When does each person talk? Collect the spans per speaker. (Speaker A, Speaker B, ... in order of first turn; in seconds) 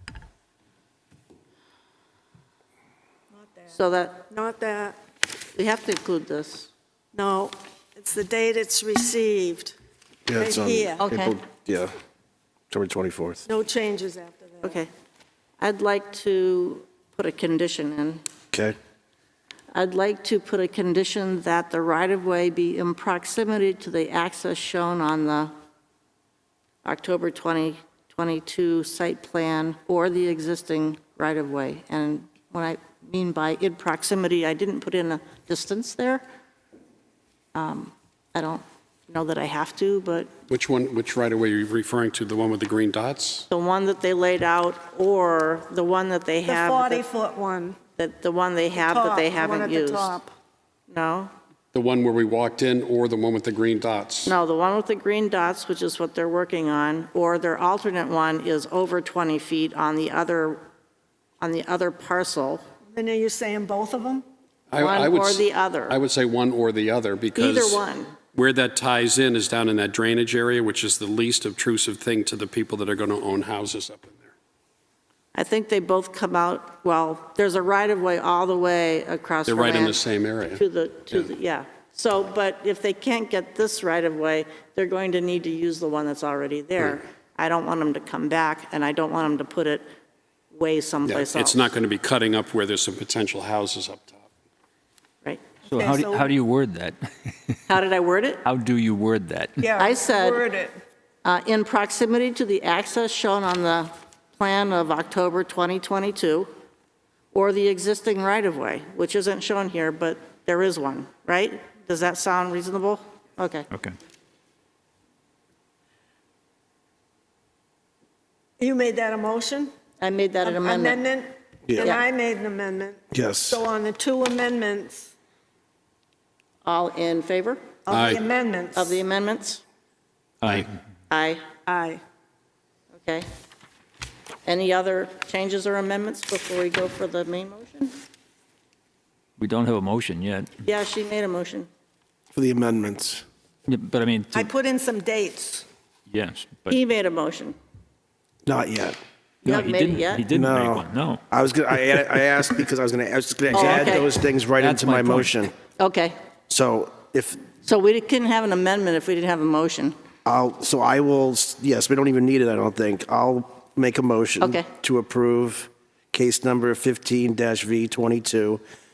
Speaker A: 3.7-4.3, 5.5-6.7, 11.0-11.4, 14.6-14.9, 15.6-18.2, 19.7-25.5, 26.8-36.2, 37.5-40.3, 43.5-47.0, 48.0-50.2, 50.9-51.3, 54.2-60.6, 61.4-62.6, 64.8-66.0, 67.3-68.1, 75.3-80.0, 80.5-89.8, 90.5-91.6, 97.7-98.5, 99.8-100.4, 101.2-106.5, 107.3-113.7, 120.0-121.0, 126.6-127.6, 128.7-129.6, 131.1-131.4, 133.0-133.3, 134.4-137.9, 140.6-141.7, 146.7-147.6, 149.4-150.2, 153.5-154.1, 155.8-156.2, 157.6-159.9, 164.4-164.7
Speaker B: 4.3-5.0, 7.1-9.7, 10.4-11.0, 13.5-14.8, 46.5-47.8, 48.7-50.3, 62.9-64.2, 95.7-96.3, 99.6-100.8, 118.6-119.7, 120.4-125.1, 127.9-129.0, 131.7-132.0, 144.3-145.7
Speaker C: 10.3-11.9, 12.7-13.4, 121.7-122.0, 123.1-123.6, 142.3-143.2, 148.4-148.9, 150.3-155.5, 156.5-157.4, 160.2-168.6
Speaker D: 40.5-43.5, 51.7-54.3, 64.7-67.8, 68.3-74.3, 79.5-81.3, 91.0-94.2, 127.9-128.2, 130.4-130.7
Speaker E: 95.7-97.6, 98.4-99.7, 130.4-130.7, 139.4-140.5, 143.7-144.5, 146.1-146.8, 149.4-151.2, 153.6-153.9, 154.6-155.3